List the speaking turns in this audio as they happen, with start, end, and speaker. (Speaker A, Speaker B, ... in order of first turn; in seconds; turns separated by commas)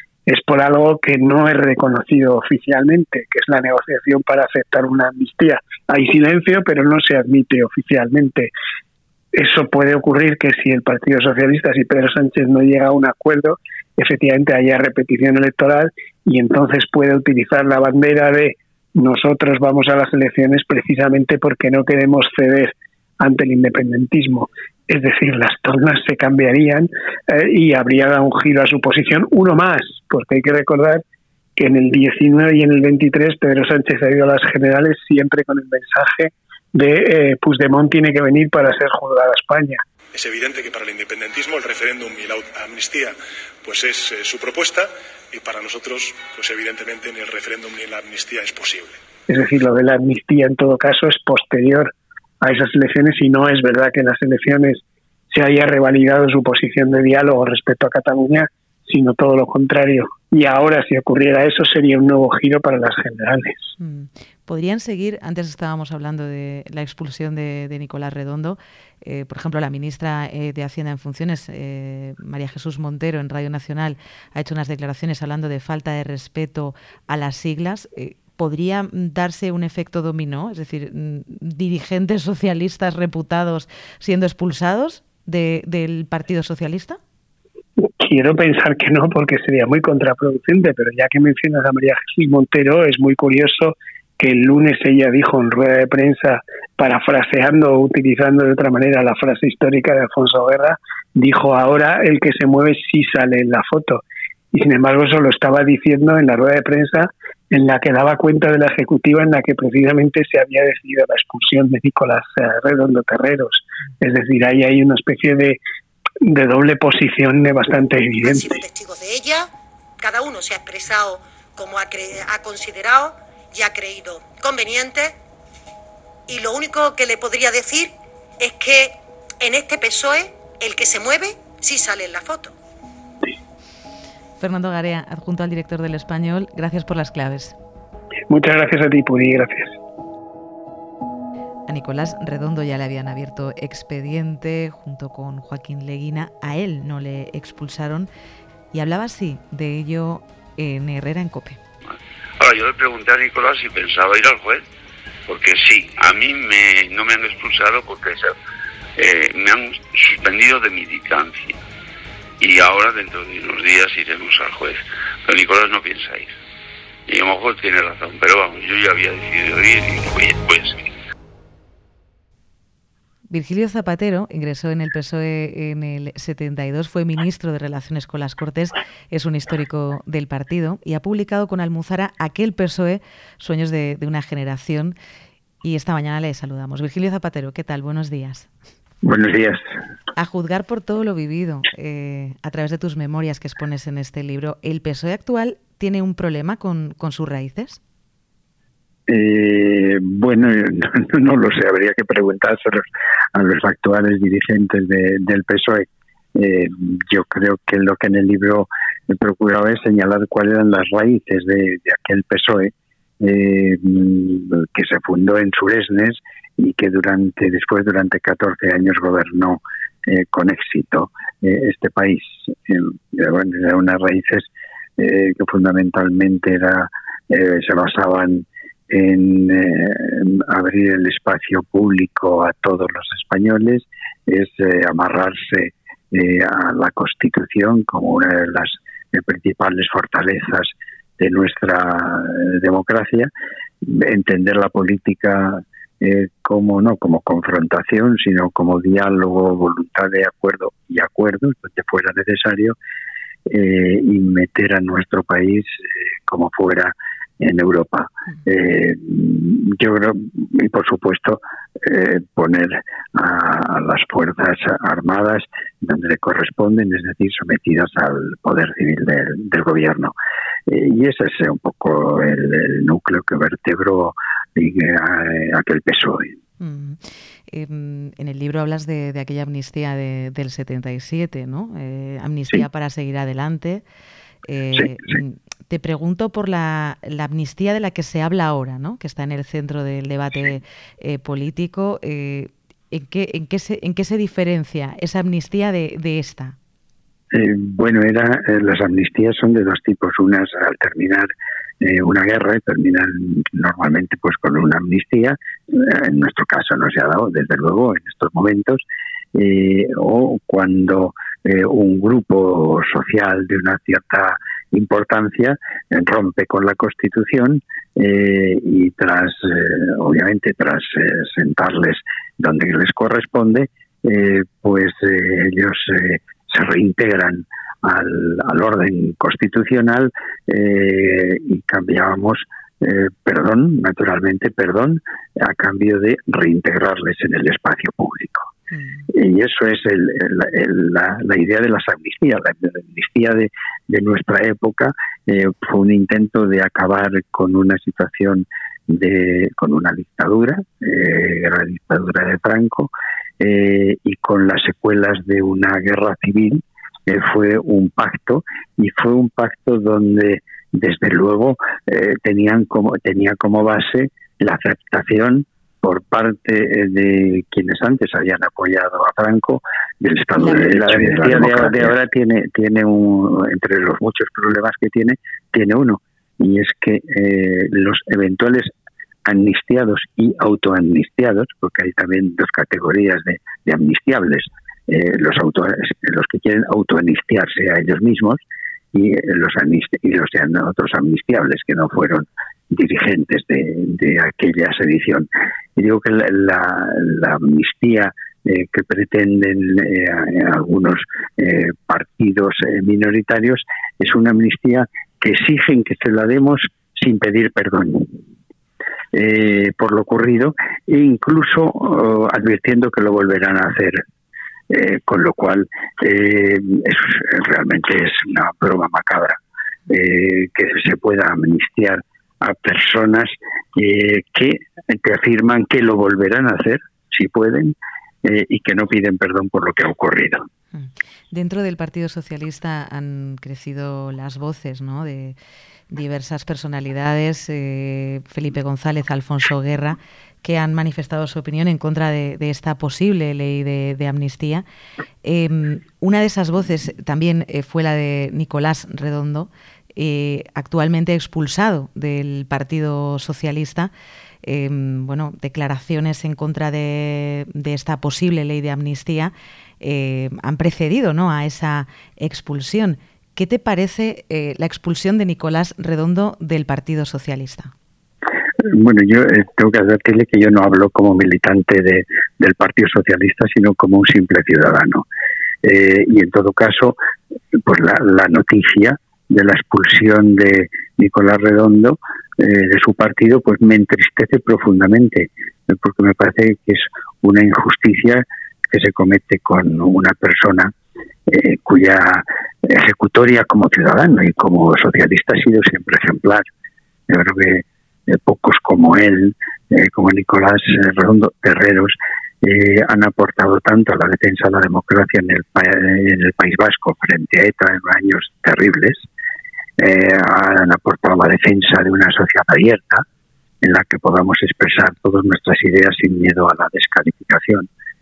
Speaker A: 0.3-8.5, Speaker A: 9.3-31.0, Speaker A: 31.6-39.8, Speaker B: 40.1-49.0, Speaker A: 49.3-63.7, Speaker C: 63.8-87.0, Speaker A: 87.8-104.0, Speaker A: 104.5-115.6, Speaker A: 116.2-118.6, Speaker D: 118.2-119.5, Speaker D: 120.0-125.1, Speaker D: 126.3-132.5, Speaker C: 134.4-137.6, Speaker A: 138.3-139.8, Speaker C: 141.7-148.1, Speaker C: 148.7-151.6, Speaker E: 152.4-154.6, Speaker E: 155.3-158.3, Speaker E: 159.0-161.6, Speaker E: 162.4-166.3, Speaker E: 167.1-170.8, Speaker C: 173.3-184.9, Speaker C: 185.6-188.5, Speaker F: 189.0-189.6, Speaker C: 190.1-197.8, Speaker F: 199.1-202.8, Speaker F: 203.3-205.8, Speaker F: 206.3-243.3, Speaker F: 243.8-252.8, Speaker F: 253.5-270.1, Speaker F: 270.7-276.3, Speaker C: 276.6-283.8, Speaker C: 284.4-296.6, Speaker F: 297.3-301.3, Speaker F: 301.8-308.8, Speaker F: 309.3-338.5, Speaker C: 338.8-339.1, Speaker F: 339.1-378.7, Speaker C: 371.1-371.5, Speaker F: 379.2-388.4, Speaker F: 388.9-408.1, Speaker F: 409.1-414.0, Speaker F: 414.7-430.4, Speaker C: 430.7-435.4, Speaker C: 435.9-444.6, Speaker C: 445.2-453.9, Speaker C: 454.4-467.7, Speaker F: 468.6-475.0, Speaker F: 475.6-476.9, Speaker F: 477.6-490.7, Speaker F: 491.3-496.4, Speaker F: 497.1-509.1, Speaker F: 509.8-513.0, Speaker F: 513.6-517.7